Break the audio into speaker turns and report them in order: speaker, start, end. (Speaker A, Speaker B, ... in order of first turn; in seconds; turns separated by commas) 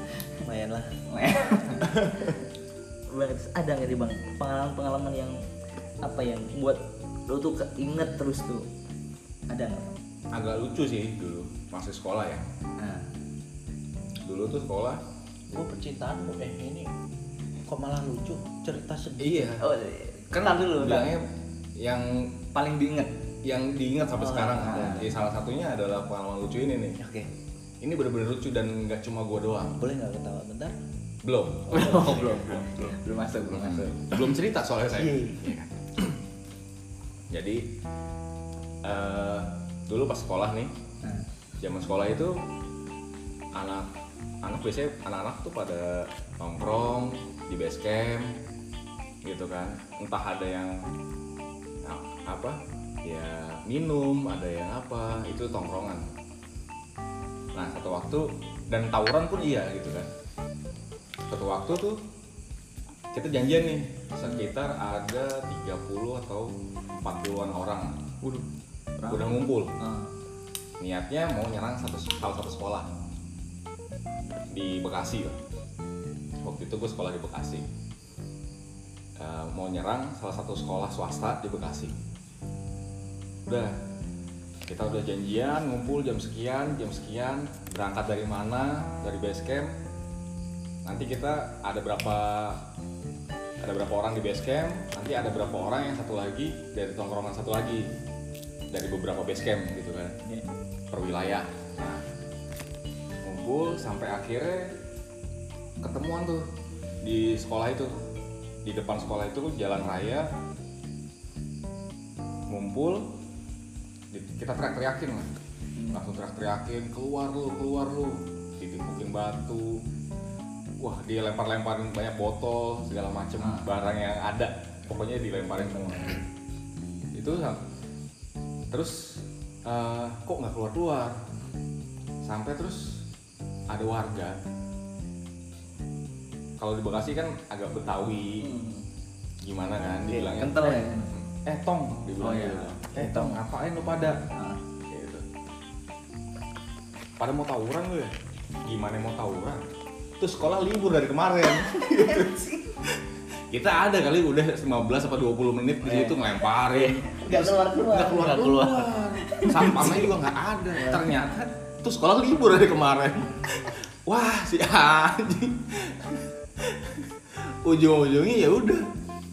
Speaker A: 0.4-1.0, Speaker B: 1.1-2.3, Speaker B: 3.1-5.4, Speaker B: 6.0-8.7, Speaker B: 9.5-9.9, Speaker C: 10.3-12.5, Speaker B: 12.8-13.1, Speaker C: 14.2-15.0, Speaker A: 15.5-16.9, Speaker A: 17.7-19.6, Speaker C: 19.2-19.6, Speaker B: 19.6-21.1, Speaker C: 20.3-22.4, Speaker B: 22.5-23.1, Speaker C: 23.4-27.0, Speaker A: 24.2-25.1, Speaker B: 24.4-25.1, Speaker A: 27.0-27.3, Speaker C: 27.8-29.8, Speaker A: 29.8-30.8, Speaker C: 31.2-33.0, Speaker B: 31.7-34.1, Speaker C: 33.5-36.2, Speaker A: 34.9-35.5, Speaker C: 37.3-37.7, Speaker C: 38.8-40.7, Speaker C: 41.6-42.4, Speaker C: 43.5-43.9, Speaker C: 44.4-48.4, Speaker C: 49.2-50.8, Speaker C: 51.8-56.1, Speaker C: 57.5-60.1, Speaker C: 61.3-62.0, Speaker C: 63.1-68.0, Speaker B: 69.0-70.1, Speaker C: 69.1-69.8, Speaker C: 70.8-72.9, Speaker C: 74.5-75.4, Speaker C: 76.4-77.7, Speaker C: 79.2-81.9, Speaker C: 83.5-83.8, Speaker C: 84.7-89.7, Speaker C: 90.8-92.7, Speaker C: 93.6-97.9, Speaker C: 98.7-100.2, Speaker C: 100.9-102.0, Speaker C: 103.2-104.8, Speaker C: 105.8-106.5, Speaker C: 107.0-108.0, Speaker C: 108.7-110.3, Speaker C: 112.5-113.2, Speaker C: 114.1-115.3, Speaker C: 115.9-119.8, Speaker C: 120.8-126.2, Speaker B: 123.4-123.7, Speaker C: 127.1-127.6, Speaker C: 128.7-131.2, Speaker C: 132.2-133.0, Speaker C: 133.7-134.4, Speaker C: 136.6-138.5, Speaker B: 138.4-138.8, Speaker C: 139.4-144.2, Speaker B: 140.1-141.1, Speaker B: 142.2-143.4, Speaker B: 144.3-144.6, Speaker C: 144.9-145.2, Speaker C: 147.2-148.1, Speaker C: 148.7-149.6, Speaker C: 150.2-168.9, Speaker B: 151.5-152.8, Speaker B: 155.8-160.1, Speaker A: 157.3-158.7, Speaker B: 160.8-161.1